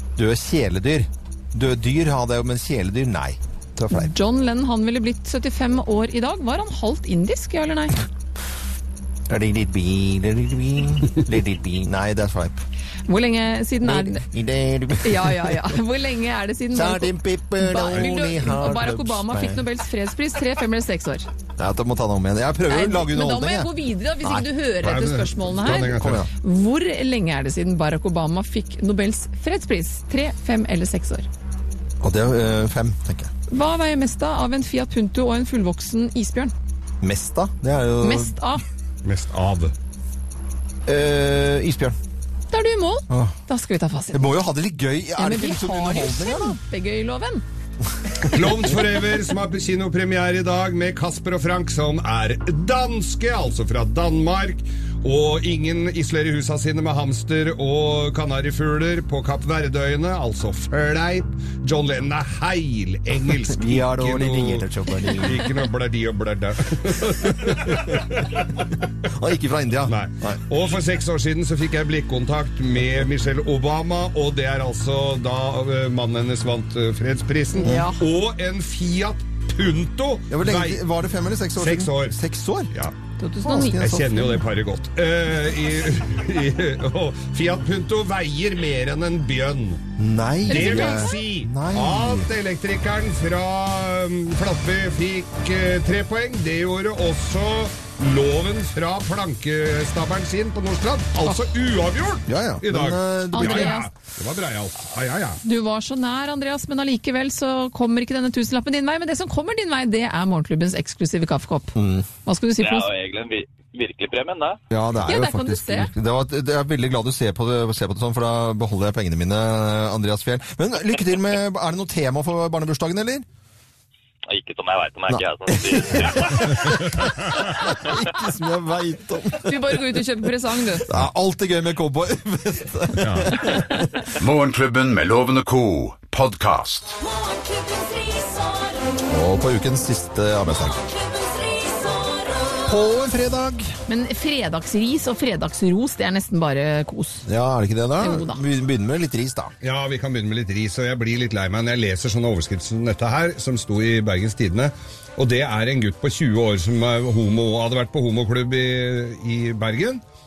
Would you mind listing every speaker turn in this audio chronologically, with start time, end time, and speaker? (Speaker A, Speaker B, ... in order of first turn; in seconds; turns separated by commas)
Speaker A: 0.2-4.1, Speaker B: 3.9-8.0, Speaker A: 9.3-12.6, Speaker B: 13.1-14.2, Speaker A: 13.8-15.7, Speaker B: 15.0-21.3, Speaker A: 16.7-19.6, Speaker A: 21.6-23.7, Speaker B: 22.7-31.3, Speaker C: 24.8-26.2, Speaker A: 25.6-26.3, Speaker A: 32.0-33.3, Speaker B: 33.5-36.5, Speaker A: 37.0-38.4, Speaker B: 38.0-38.6, Speaker C: 39.0-39.7, Speaker A: 40.9-42.0, Speaker B: 42.5-44.3, Speaker A: 43.1-43.4, Speaker A: 44.1-46.6, Speaker B: 45.2-47.4, Speaker C: 48.2-68.5, Speaker A: 63.5-65.5, Speaker A: 67.4-67.8, Speaker A: 69.1-70.4, Speaker C: 69.9-80.8, Speaker B: 77.5-78.0, Speaker A: 80.3-82.7, Speaker C: 81.6-82.2, Speaker B: 83.2-84.4, Speaker A: 83.5-84.1, Speaker C: 83.8-89.8, Speaker A: 90.0-92.3, Speaker B: 90.5-91.2, Speaker C: 90.5-105.4, Speaker A: 102.3-103.8, Speaker B: 103.3-103.9, Speaker B: 105.4-111.8, Speaker A: 111.8-112.1, Speaker B: 112.3-112.9, Speaker D: 112.6-114.6, Speaker A: 114.7-123.3, Speaker B: 115.1-115.9, Speaker D: 124.3-126.6, Speaker A: 125.1-130.0, Speaker C: 126.5-127.5, Speaker D: 127.8-128.1, Speaker B: 129.4-130.9, Speaker A: 130.9-134.0, Speaker C: 133.0-133.5, Speaker E: 134.2-137.0, Speaker F: 137.0-139.1, Speaker A: 139.1-140.8, Speaker F: 140.7-142.7, Speaker A: 142.7-143.8, Speaker B: 143.9-147.3, Speaker A: 147.3-149.5, Speaker B: 148.0-148.4, Speaker C: 149.6-160.0